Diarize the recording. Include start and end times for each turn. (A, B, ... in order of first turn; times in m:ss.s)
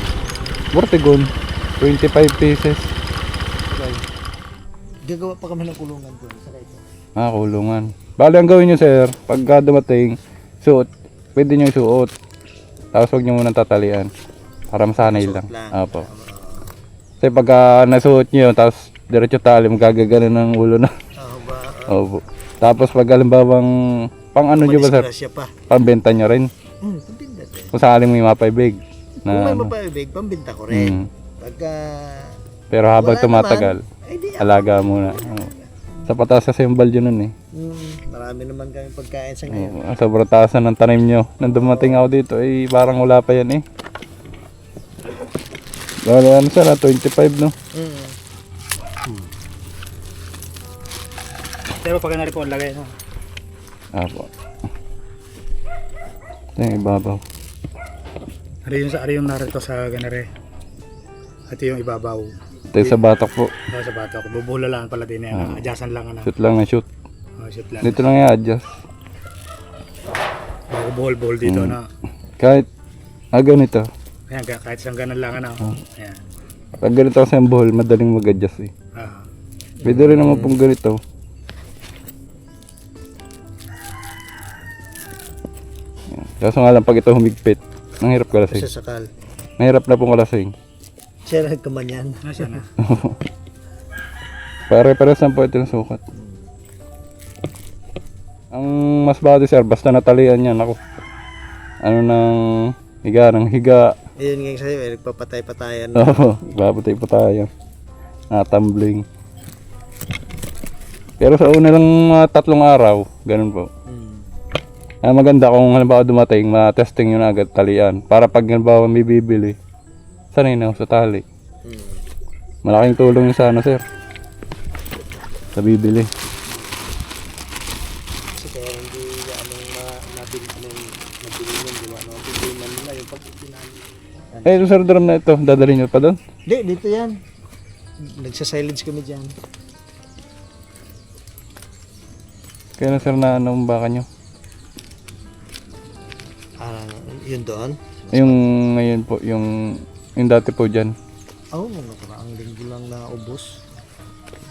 0:00.7-0:01.3 A
0:01.8-0:02.9 A
0:03.7-0:04.0 A
0:05.0-0:06.8 B
0:07.2-0:12.1 A
0:12.9-0:14.1 A
0:14.7-0:16.1 A
0:15.0-0:16.8 B
0:17.2-0:20.9 A
0:21.2-0:22.0 B
0:21.9-0:23.7 A
0:24.2-0:25.1 A
0:24.5-0:25.5 B
0:25.7-0:26.5 A
0:26.8-0:27.7 B
0:27.7-0:29.7 A
0:29.3-0:32.4 B
0:30.7-0:31.1 A
0:32.7-0:33.8 A
0:32.9-0:35.9 B
0:34.4-0:35.5 A
0:36.1-0:37.3 A
0:37.5-0:39.8 B
0:39.5-0:43.6 A
0:41.5-0:42.1 B
0:46.0-0:47.5 A
0:47.7-0:48.2 B
0:51.8-0:52.9 C
0:53.9-0:54.3 A
0:56.6-0:57.2 A
0:58.7-1:00.2 C
1:01.5-1:02.3 C
1:02.7-1:03.5 A
1:03.7-1:06.3 C
1:05.3-1:05.7 A
1:06.2-1:06.9 A
1:07.4-1:08.0 C
1:07.8-1:08.6 A
1:10.7-1:11.8 C
1:11.4-1:11.8 A
1:12.4-1:12.7 A
1:13.3-1:13.8 A
1:14.3-1:16.2 C
1:16.8-1:18.7 A
1:19.0-1:19.3 C
1:19.8-1:20.6 B
1:19.8-1:21.0 A
1:26.1-1:28.6 A
1:28.3-1:29.1 B
1:29.6-1:30.5 A
1:31.2-1:32.6 B
1:32.3-1:32.6 C
1:32.8-1:33.1 A
1:34.7-1:36.0 A
1:36.1-1:36.5 B
1:38.5-1:40.8 A
1:41.8-1:43.9 A
1:44.2-1:46.4 B
1:46.0-1:47.5 A
1:48.3-1:49.0 A
1:51.2-1:53.7 A
1:53.9-1:54.3 B
1:55.0-1:59.5 A
2:00.3-2:01.2 A
2:01.6-2:02.0 B
2:02.6-2:03.8 A
2:05.5-2:06.1 A
2:08.4-2:14.8 B
2:14.4-2:16.2 A
2:16.5-2:17.1 B
2:18.1-2:19.3 B
2:22.8-2:24.0 A
2:26.6-2:28.6 B
2:28.1-2:29.5 A
2:30.2-2:30.9 A
2:31.5-2:33.6 B